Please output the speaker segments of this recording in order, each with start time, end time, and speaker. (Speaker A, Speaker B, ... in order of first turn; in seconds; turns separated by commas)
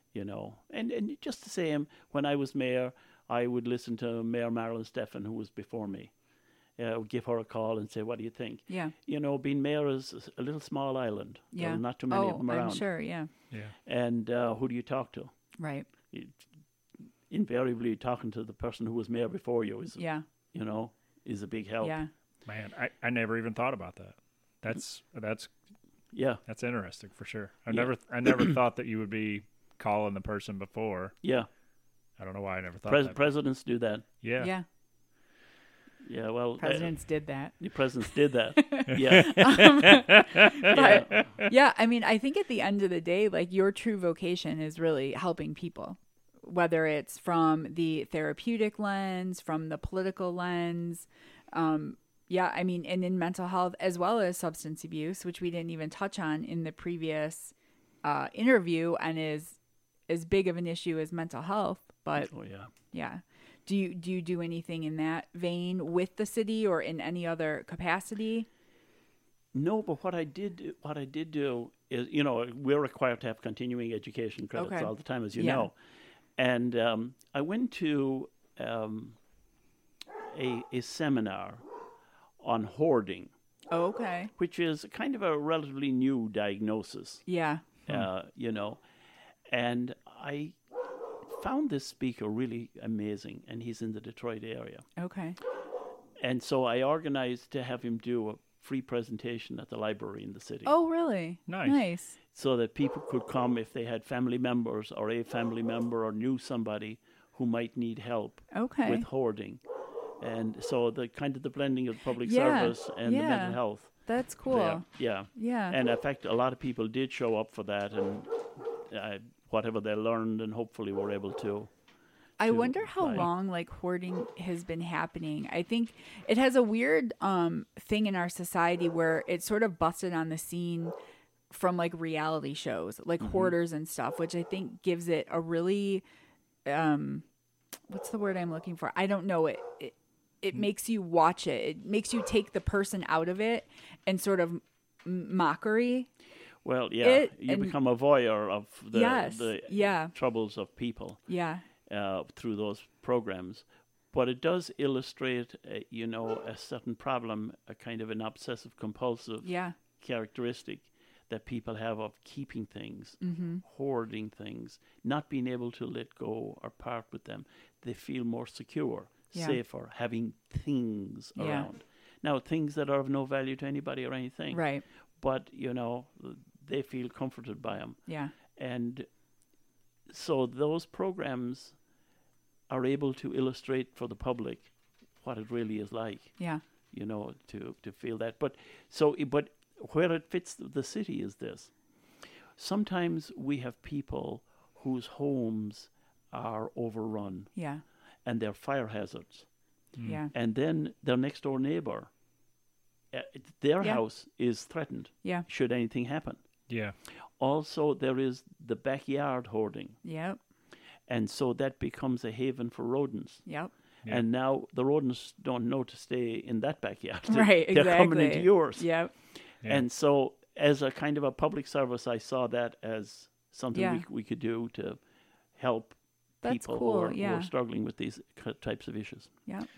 Speaker A: 0.1-6.1, Speaker A: 6.8-12.9, Speaker B: 11.5-13.3, Speaker A: 13.9-15.3, Speaker B: 15.6-15.9, Speaker A: 16.1-16.4, Speaker A: 17.3-22.0, Speaker B: 20.0-20.2, Speaker B: 21.8-22.1, Speaker C: 22.4-25.5, Speaker A: 26.1-26.4, Speaker C: 26.4-31.1, Speaker A: 27.7-28.6, Speaker A: 31.2-31.5, Speaker C: 32.2-33.2, Speaker A: 32.9-34.0, Speaker C: 34.2-34.5, Speaker B: 34.4-34.6, Speaker A: 36.0-36.9, Speaker B: 36.6-62.3, Speaker A: 37.6-40.0, Speaker C: 38.9-41.4, Speaker A: 40.7-41.4, Speaker A: 62.2-62.7, Speaker B: 62.9-68.5, Speaker A: 69.5-75.7, Speaker B: 74.5-75.7, Speaker A: 76.4-79.2, Speaker A: 80.3-81.6, Speaker A: 82.4-83.3, Speaker B: 83.7-84.3, Speaker A: 84.4-87.2, Speaker B: 87.3-87.7, Speaker A: 87.9-88.8, Speaker A: 89.5-90.5, Speaker A: 91.3-94.9, Speaker B: 95.0-95.4, Speaker A: 96.2-100.7, Speaker B: 100.7-102.2, Speaker C: 101.5-101.9, Speaker A: 102.3-109.6, Speaker B: 108.5-109.0, Speaker A: 110.2-121.7, Speaker B: 112.2-115.8, Speaker B: 122.4-130.9, Speaker A: 122.4-123.3, Speaker B: 131.5-136.0, Speaker A: 133.2-133.5, Speaker B: 136.7-137.2, Speaker B: 137.9-146.1, Speaker A: 146.6-151.3, Speaker B: 147.0-147.7, Speaker B: 148.9-150.1, Speaker B: 151.3-151.6, Speaker A: 151.8-179.1, Speaker B: 159.4-159.7, Speaker B: 163.2-163.6, Speaker B: 169.3-169.6, Speaker B: 171.4-171.7, Speaker B: 174.5-174.8, Speaker B: 178.1-178.3, Speaker A: 180.1-181.8, Speaker A: 182.7-191.7, Speaker B: 186.4-186.6, Speaker A: 192.6-197.6, Speaker B: 197.6-197.8, Speaker A: 198.2-199.5, Speaker B: 200.0-200.3, Speaker A: 200.3-202.1, Speaker A: 203.1-206.4, Speaker C: 206.7-206.9, Speaker A: 207.4-210.0, Speaker B: 210.0-210.4, Speaker A: 211.1-213.5, Speaker B: 213.4-213.7, Speaker A: 214.0-225.0, Speaker B: 217.3-219.1, Speaker B: 223.7-224.0, Speaker A: 225.6-229.3, Speaker B: 226.4-227.5